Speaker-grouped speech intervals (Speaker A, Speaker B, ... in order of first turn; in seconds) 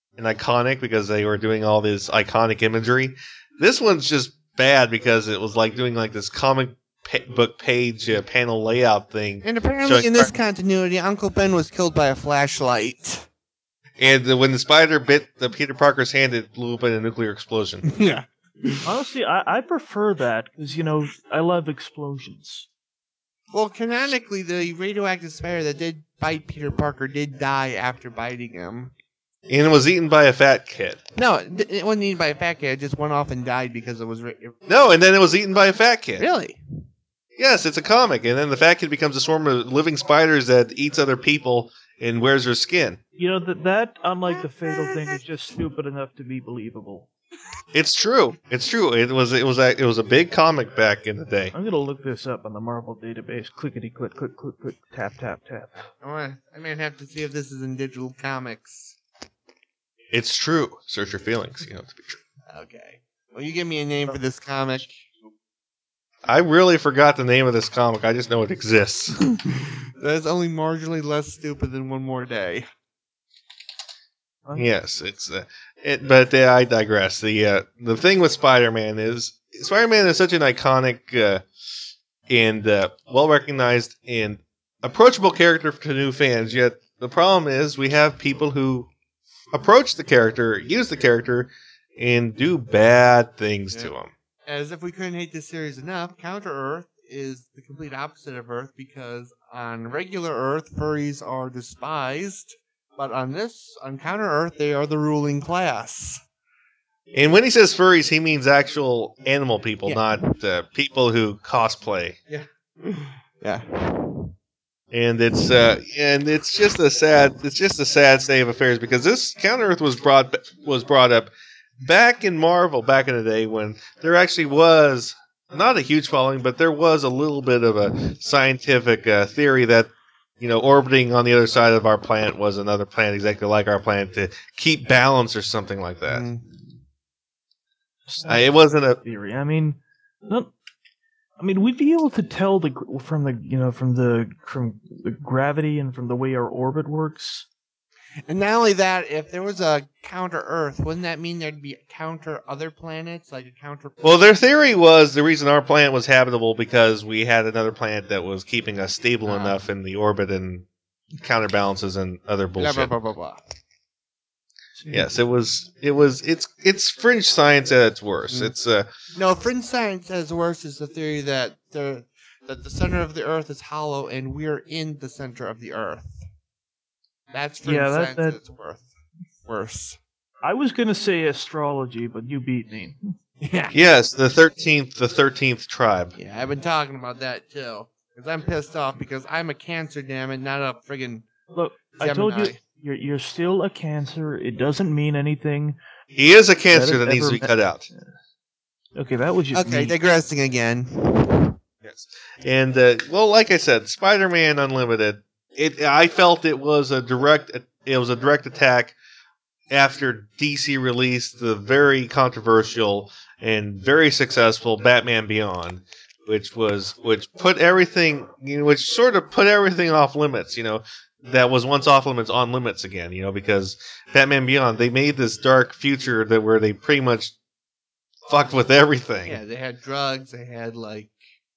Speaker A: 0.2-10.3, 14.0-17.9, 29.5-31.0, 34.7-36.3, 37.4-43.0, 47.7-51.5, 60.1-62.2, 66.3-69.2, 74.5-81.4, 82.3-88.9, 89.5-94.1, 107.1-112.2, 114.9-121.3, 121.8-129.9, 130.4-136.3, 138.3-139.0, 154.0-160.7, 161.2-162.9, 164.9-168.9, 183.7-186.2, 196.1-197.9, 201.8-209.0, 209.7-227.3, 228.3-229.4
Speaker B: 9.4-13.3, 17.9-18.9, 23.5-28.9, 31.2-34.6, 36.2-36.6, 44.7-45.1, 56.0-59.0, 62.5-65.0, 70.0-72.7, 94.5-106.2, 112.3-114.3, 136.1-136.5, 148.3-154.1, 159.3-159.6, 162.6-163.4, 169.2-176.2, 177.3-178.9, 179.5-180.0, 183.4-183.8, 186.2-191.3, 191.9-192.6, 199.5-201.6, 229.3-231.2
Speaker C: 18.9-22.7, 43.2-47.1, 51.5-55.7, 138.1-140.5, 141.4-147.5, 164.8-165.1, 177.6-178.4, 180.4-183.0, 191.5-195.8, 196.7-198.1, 199.0-199.9